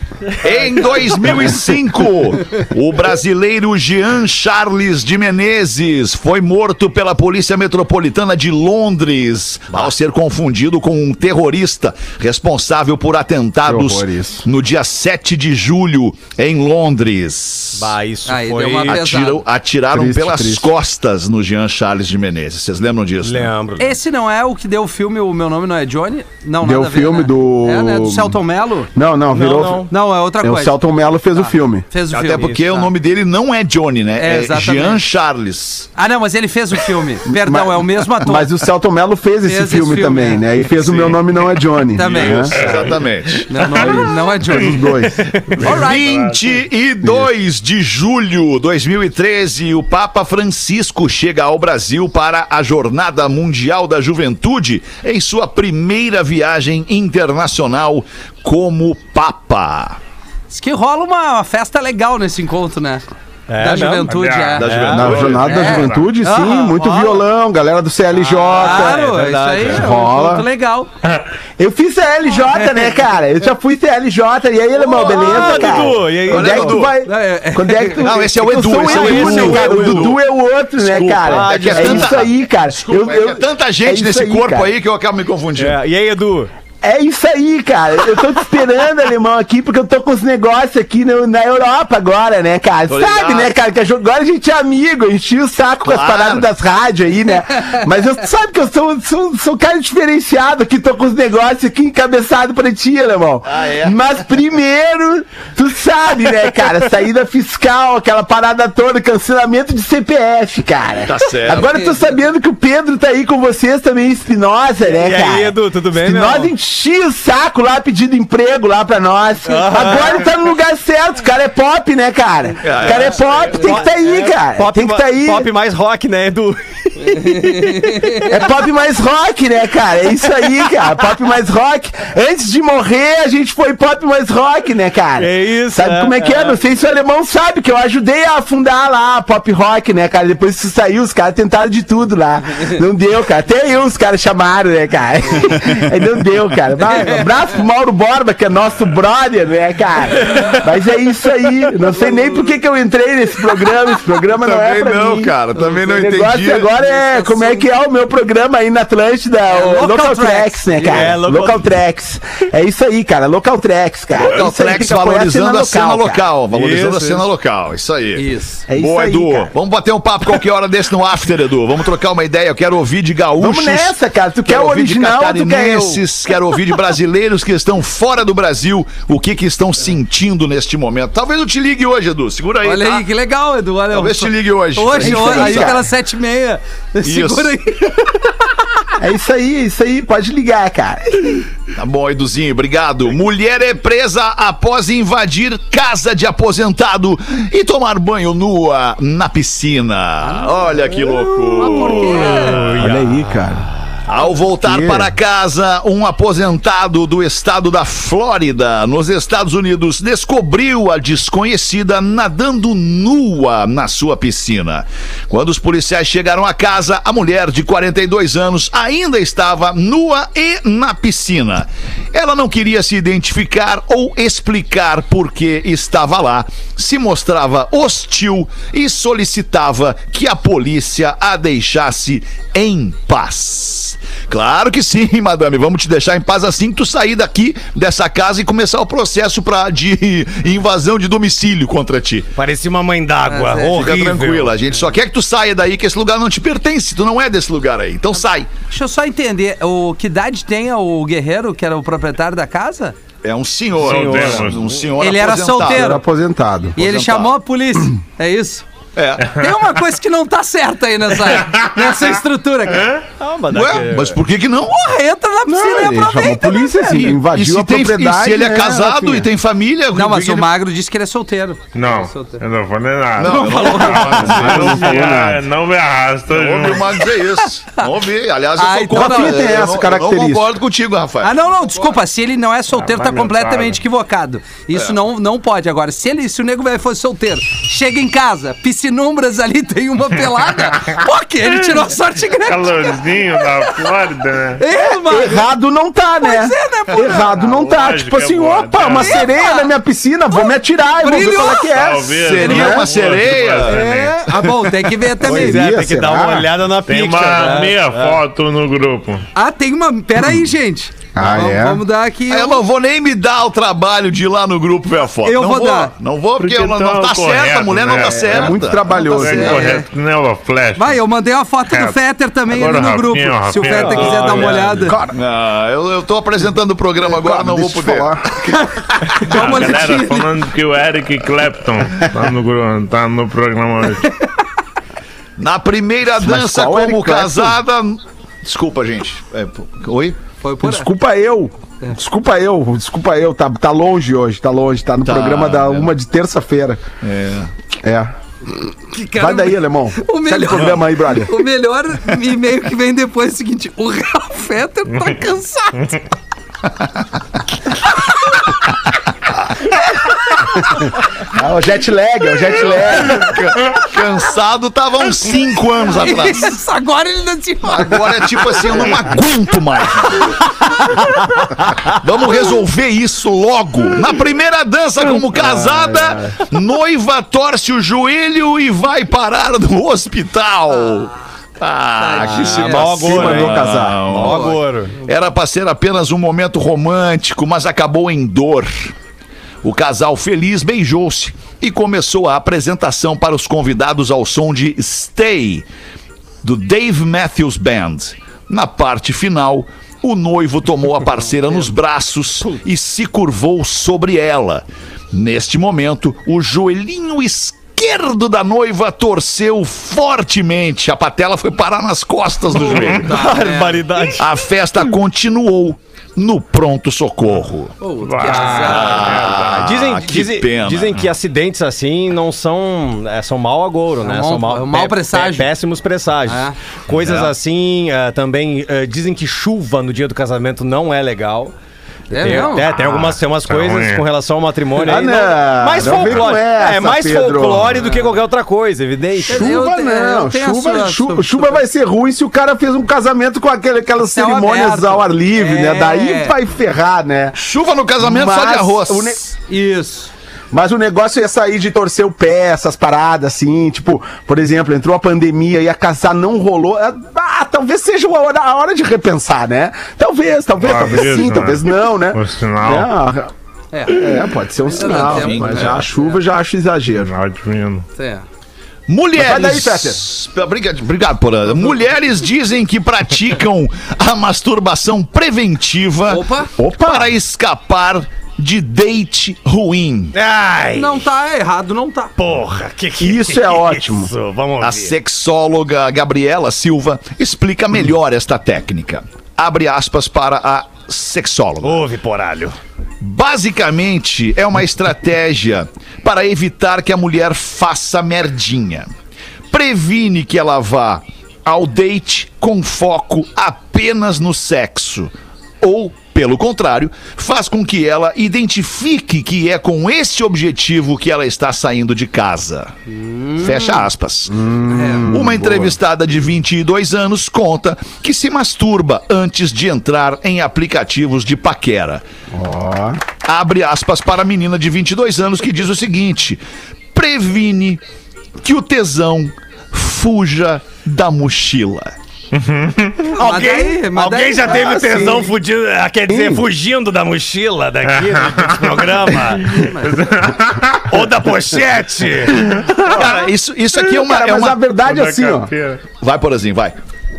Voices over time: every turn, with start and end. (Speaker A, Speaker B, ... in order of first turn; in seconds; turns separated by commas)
Speaker A: 0.4-17.9, Speaker B: 0.9-1.4, Speaker C: 13.6-14.4, Speaker D: 17.8-19.0, Speaker B: 18.2-19.4, Speaker A: 18.9-23.5, Speaker C: 19.9-20.7, Speaker D: 23.2-24.0, Speaker B: 23.8-28.9, Speaker C: 26.6-28.4, Speaker C: 28.9-29.9, Speaker D: 29.3-29.9, Speaker B: 29.9-30.8, Speaker C: 30.4-31.9, Speaker B: 31.3-32.9, Speaker D: 32.1-32.9, Speaker A: 32.1-35.9, Speaker B: 34.2-35.0, Speaker B: 36.0-38.6, Speaker C: 37.2-42.6, Speaker B: 39.4-40.4, Speaker A: 40.8-41.2, Speaker B: 41.9-42.7, Speaker A: 42.0-43.5, Speaker E: 42.6-44.0, Speaker B: 43.5-45.0, Speaker C: 43.7-45.3, Speaker D: 45.1-45.6, Speaker A: 45.6-60.0, Speaker B: 45.6-46.3, Speaker E: 45.7-46.4, Speaker B: 60.5-63.0, Speaker D: 63.5-65.3, Speaker B: 63.6-64.7, Speaker E: 64.1-64.7, Speaker A: 64.6-65.7, Speaker C: 64.9-69.0, Speaker E: 65.3-66.1, Speaker B: 65.5-67.2, Speaker D: 68.1-69.9, Speaker B: 68.5-70.9, Speaker C: 69.6-70.5, Speaker C: 71.6-84.7, Speaker B: 72.5-73.0, Speaker D: 74.8-76.9, Speaker A: 75.3-76.9, Speaker B: 77.0-78.1, Speaker A: 78.0-80.2, Speaker D: 78.4-80.1, Speaker A: 80.8-85.8, Speaker D: 81.2-82.2, Speaker D: 85.6-86.5, Speaker C: 86.8-125.5, Speaker A: 92.9-93.5, Speaker A: 95.8-96.5, Speaker A: 103.5-104.0, Speaker A: 111.0-111.7, Speaker B: 111.5-112.0, Speaker D: 114.8-116.5, Speaker D: 119.5-120.2, Speaker A: 122.6-123.8, Speaker D: 123.5-128.4, Speaker B: 127.8-128.2, Speaker C: 128.3-166.2, Speaker D: 130.4-130.9, Speaker D: 135.2-136.5, Speaker A: 145.6-145.9, Speaker B: 146.8-147.3, Speaker D: 150.2-150.6, Speaker A: 154.4-156.7, Speaker B: 156.8-157.7, Speaker B: 159.5-161.2, Speaker D: 160.8-161.7, Speaker A: 164.1-173.9, Speaker D: 166.5-167.2, Speaker B: 168.2-168.6, Speaker C: 168.7-169.5, Speaker C: 173.4-176.0, Speaker A: 174.5-183.0, Speaker B: 182.6-188.3, Speaker A: 183.9-185.8, Speaker C: 185.0-185.8, Speaker A: 187.0-187.5, Speaker C: 189.0-191.4, Speaker A: 191.8-202.6, Speaker B: 200.2-200.5, Speaker B: 201.6-202.7, Speaker D: 201.6-203.8, Speaker C: 202.8-203.7, Speaker A: 204.1-242.3, Speaker C: 204.6-205.1, Speaker D: 242.4-244.5, Speaker B: 243.3-243.8, Speaker A: 243.6-248.5, Speaker B: 248.7-252.9, Speaker A: 253.2-255.9, Speaker D: 253.8-254.8, Speaker E: 253.8-254.6, Speaker B: 255.0-256.0, Speaker C: 255.6-256.8, Speaker A: 256.8-257.3, Speaker B: 256.8-258.6, Speaker A: 259.0-259.3, Speaker B: 259.3-262.9, Speaker E: 261.3-262.2, Speaker E: 262.7-263.0, Speaker D: 263.2-264.2, Speaker A: 263.5-264.8, Speaker B: 264.7-266.8, Speaker C: 265.5-269.3, Speaker A: 266.9-270.5, Speaker B: 269.9-272.4, Speaker E: 271.7-277.0, Speaker A: 273.2-275.2, Speaker B: 273.2-274.6, Speaker C: 274.2-275.4, Speaker A: 276.3-281.4, Speaker B: 277.0-277.9, Speaker B: 278.6-279.6, Speaker C: 278.9-280.5, Speaker B: 281.2-293.9, Speaker E: 282.8-283.8, Speaker E: 290.6-291.8, Speaker E: 292.5-294.6, Speaker B: 294.6-295.5, Speaker C: 294.7-302.9, Speaker B: 296.2-297.5, Speaker E: 297.5-299.2, Speaker B: 299.0-299.7, Speaker B: 300.3-301.8, Speaker E: 301.6-304.3, Speaker A: 302.1-303.8, Speaker B: 302.4-302.7, Speaker B: 303.6-305.6, Speaker D: 305.2-308.2, Speaker C: 305.2-306.5, Speaker E: 306.9-309.2, Speaker B: 309.4-312.6, Speaker C: 311.1-311.8, Speaker A: 312.3-318.8, Speaker B: 315.2-315.9, Speaker E: 316.4-321.0, Speaker C: 318.2-319.7, Speaker B: 318.9-319.9, Speaker B: 320.8-325.0, Speaker E: 321.7-322.0, Speaker E: 322.5-325.0, Speaker D: 323.7-324.7, Speaker A: 325.1-328.5, Speaker C: 327.0-328.3, Speaker B: 328.4-330.4, Speaker A: 329.2-329.9, Speaker E: 329.2-334.1, Speaker A: 335.4-340.2, Speaker C: 336.2-337.6, Speaker B: 340.4-340.9, Speaker C: 340.6-346.8, Speaker A: 345.0-345.9, Speaker A: 347.0-347.5, Speaker C: 347.8-351.4, Speaker B: 348.9-356.0, Speaker B: 357.9-358.6, Speaker C: 360.6-363.4, Speaker A: 362.4-366.5, Speaker B: 365.9-368.9, Speaker A: 367.6-370.4, Speaker B: 370.6-371.2, Speaker A: 371.9-388.9, Speaker C: 375.3-376.4, Speaker B: 382.0-383.2, Speaker D: 382.2-385.0, Speaker C: 383.0-384.0, Speaker B: 384.2-384.6, Speaker A: 389.6-395.6, Speaker A: 396.4-413.1, Speaker D: 412.6-414.3, Speaker E: 412.7-413.0, Speaker B: 413.0-413.8, Speaker A: 414.2-417.8, Speaker B: 417.8-419.3, Speaker E: 418.0-419.7, Speaker D: 418.2-418.8, Speaker A: 418.3-420.9, Speaker D: 419.6-431.5, Speaker B: 424.0-425.5, Speaker B: 426.3-426.6, Speaker A: 426.9-427.3, Speaker B: 432.1-432.7, Speaker D: 432.1-439.6, Speaker E: 432.7-434.1, Speaker C: 434.8-437.8, Speaker A: 435.9-436.2, Speaker B: 437.8-438.1, Speaker C: 439.1-447.4, Speaker B: 439.3-441.6, Speaker B: 444.1-446.4, Speaker A: 447.4-449.2, Speaker C: 448.0-449.3, Speaker B: 449.5-450.1, Speaker C: 450.5-463.3, Speaker E: 460.6-462.9, Speaker B: 463.7-464.1, Speaker C: 463.9-467.1, Speaker B: 464.7-466.2, Speaker A: 464.8-465.8, Speaker E: 466.9-467.9, Speaker B: 468.0-468.2, Speaker A: 468.9-476.2, Speaker C: 469.1-470.0, Speaker B: 476.1-476.5, Speaker C: 476.6-477.1, Speaker A: 476.8-480.1, Speaker D: 480.1-481.0, Speaker B: 480.8-482.1, Speaker D: 482.2-485.0, Speaker C: 483.0-484.1, Speaker A: 484.6-491.8, Speaker D: 491.6-492.6, Speaker A: 493.0-498.9, Speaker A: 499.5-512.7, Speaker A: 513.4-514.4, Speaker C: 514.3-515.8, Speaker B: 514.7-515.1, Speaker A: 515.0-522.0, Speaker C: 522.3-523.0, Speaker A: 523.2-526.4, Speaker A: 527.0-527.8, Speaker A: 528.4-531.9, Speaker E: 532.3-533.1, Speaker B: 533.1-534.8, Speaker D: 533.2-539.6, Speaker C: 534.5-535.3, Speaker C: 536.1-536.5, Speaker E: 537.9-541.0, Speaker B: 539.5-540.1, Speaker D: 540.9-542.5, Speaker E: 542.4-542.9, Speaker A: 542.8-544.6, Speaker C: 543.7-545.5, Speaker E: 544.8-545.8, Speaker A: 546.0-546.8